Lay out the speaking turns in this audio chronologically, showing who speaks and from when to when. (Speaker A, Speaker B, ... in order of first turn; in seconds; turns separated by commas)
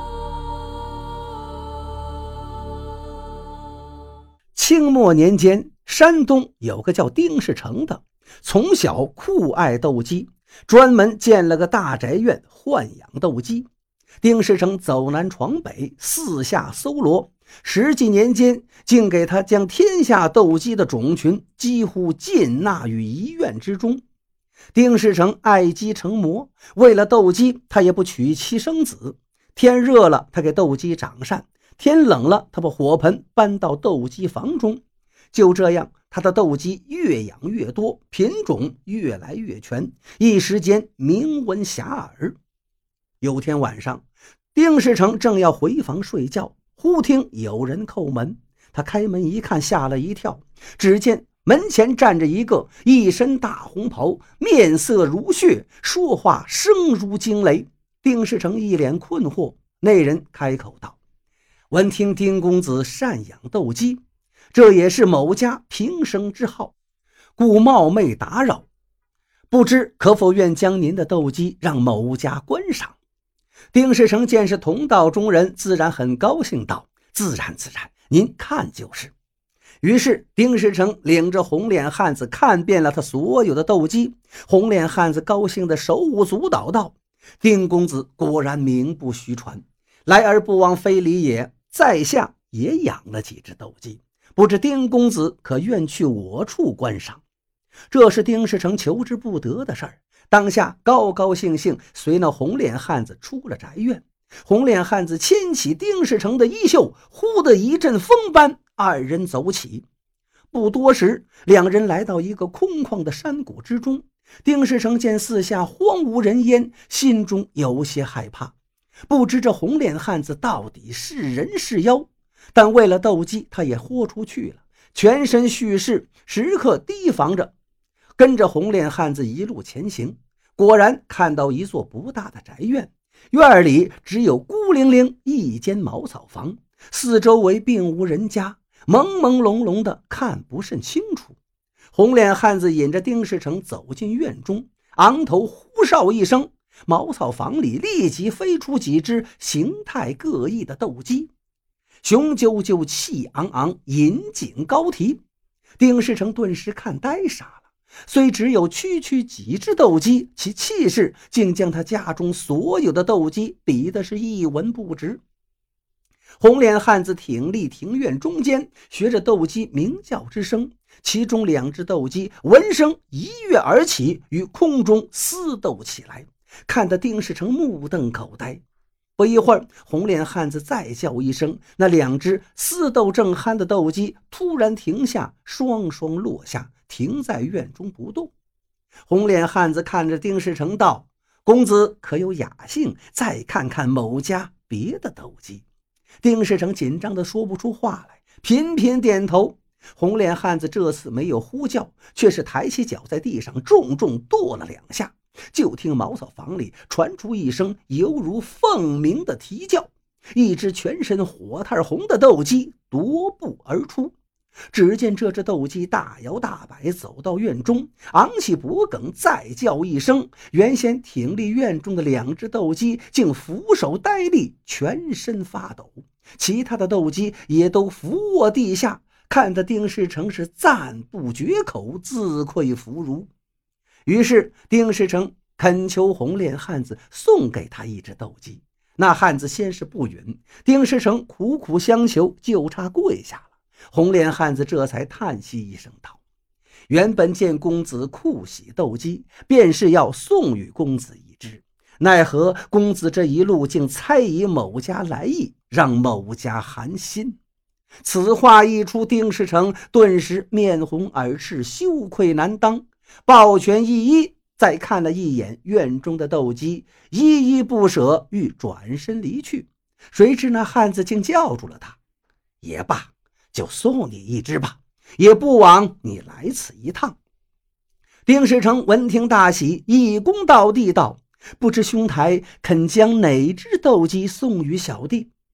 Speaker A: 4.5-13.7, Speaker A: 14.2-24.0, Speaker A: 24.7-34.8, Speaker A: 35.3-42.4, Speaker A: 43.2-61.0, Speaker A: 61.7-64.0, Speaker A: 64.5-66.7, Speaker A: 67.4-68.7, Speaker A: 69.5-73.0, Speaker A: 73.7-79.1, Speaker A: 79.8-97.2, Speaker A: 97.9-109.9, Speaker A: 110.5-118.5, Speaker A: 119.1-127.5, Speaker A: 128.2-141.4, Speaker A: 141.9-151.3, Speaker A: 152.0-155.2, Speaker A: 155.8-165.2, Speaker A: 166.4-178.6, Speaker A: 179.2-188.3, Speaker A: 189.1-195.6, Speaker A: 196.2-214.2, Speaker A: 214.7-233.3, Speaker A: 234.1-246.2, Speaker A: 246.9-257.4, Speaker A: 258.0-272.0, Speaker A: 272.6-277.2, Speaker A: 278.3-285.3